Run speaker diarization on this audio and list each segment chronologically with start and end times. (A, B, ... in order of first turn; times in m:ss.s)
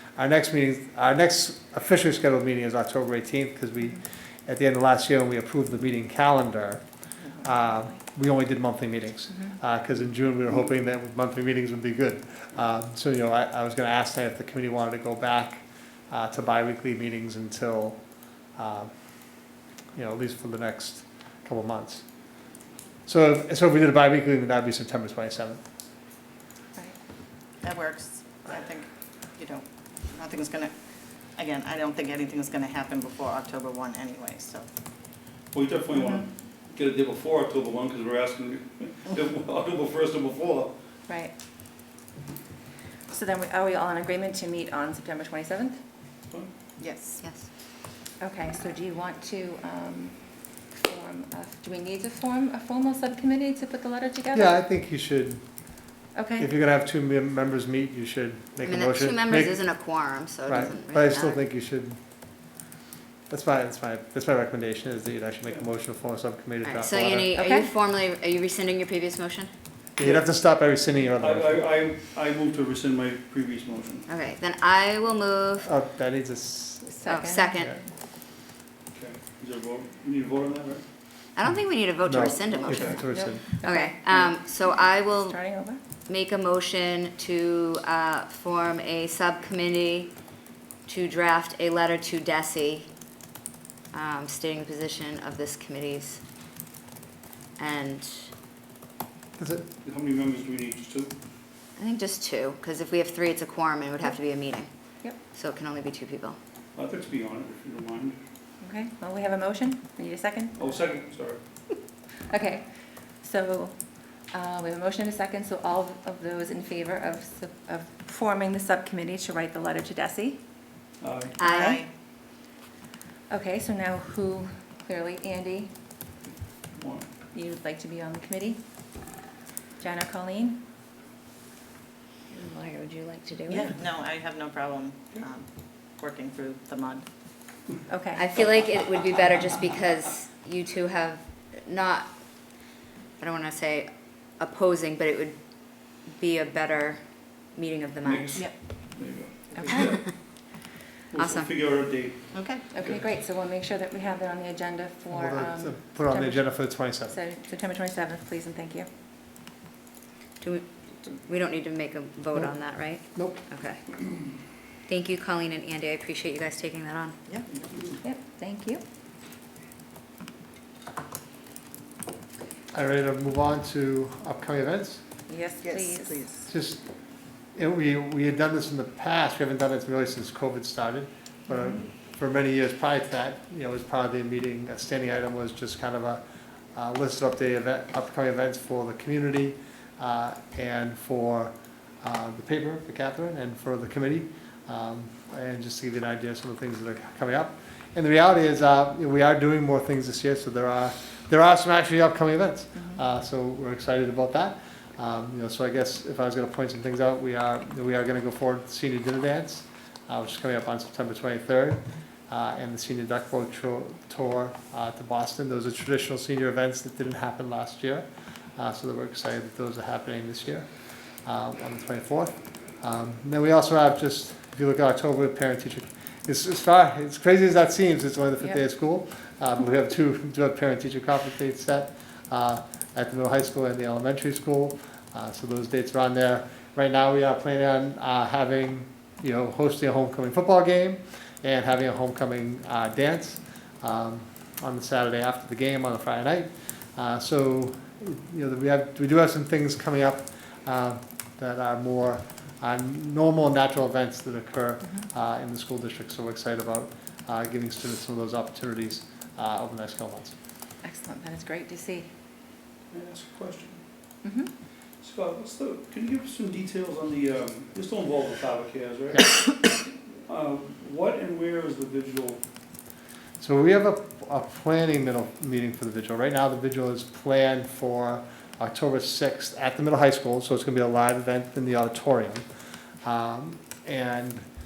0:00.2-0:06.8 A
0:07.3-0:08.0 B
0:07.4-0:18.0 A
0:09.3-0:09.6 B
0:18.5-0:18.9 A
0:19.9-0:22.0 A
0:23.0-0:25.6 A
0:27.6-0:30.7 C
0:31.3-0:34.6 C
0:35.5-0:40.7 D
0:35.9-0:36.2 B
0:41.1-0:41.3 B
0:43.1-0:45.8 B
0:46.8-0:47.2 C
0:47.2-0:47.5 E
0:48.2-0:54.5 B
0:54.3-0:55.4 A
0:56.1-0:56.5 B
0:56.4-0:59.6 A
0:58.6-1:01.4 E
1:00.4-1:02.0 A
1:03.3-1:07.3 A
1:06.6-1:09.5 E
1:07.4-1:07.7 B
1:10.0-1:11.6 A
1:11.2-1:14.1 D
1:14.1-1:15.7 E
1:15.6-1:17.8 A
1:16.9-1:17.9 B
1:17.0-1:17.7 E
1:18.9-1:20.8 D
1:21.3-1:23.0 E
1:22.0-1:23.4 A
1:22.5-1:23.0 D
1:22.9-1:25.8 B
1:23.6-1:25.4 E
1:26.1-1:30.1 E
1:30.8-1:32.9 E
1:33.9-1:36.2 E
1:37.6-1:38.3 E
1:39.4-1:39.6 A
1:39.8-1:41.1 D
1:41.8-1:44.7 E
1:45.3-1:46.4 E
1:46.8-1:48.2 D
1:48.6-1:50.7 B
1:50.5-1:51.4 D
1:52.3-2:00.4 B
2:01.0-2:01.4 D
2:01.4-2:01.8 E
2:01.4-2:01.9 C
2:01.5-2:01.8 B
2:03.3-2:05.8 B
2:06.7-2:07.1 D
2:07.3-2:08.6 B
2:09.8-2:10.6 B
2:12.3-2:13.7 E
2:13.5-2:13.8 B
2:13.5-2:17.0 C
2:17.9-2:18.3 B
2:18.1-2:22.1 E
2:23.2-2:27.0 E
2:27.5-2:28.4 E
2:28.0-2:30.2 D
2:28.3-2:28.8 B
2:29.5-2:29.8 B
2:31.1-2:33.0 D
2:31.2-2:31.5 E
2:32.3-2:32.6 C
2:32.7-2:38.9 B
2:35.1-2:37.2 A
2:40.4-2:43.8 E
2:43.1-2:43.4 A
2:44.9-2:47.2 E
2:48.0-2:48.8 B
2:52.7-2:55.0 A
2:55.3-2:56.3 B
2:55.6-2:56.5 C
2:56.4-2:56.8 A
2:57.5-3:06.2 A
3:01.5-3:01.8 B
3:06.7-3:40.7 A
3:22.7-3:23.0 B
3:41.2-4:20.3 A
4:20.8-4:22.1 B
4:22.9-4:23.8 D
4:24.2-4:24.5 B
4:25.0-4:32.4 D
4:33.4-4:42.4 A
4:43.0-4:44.5 A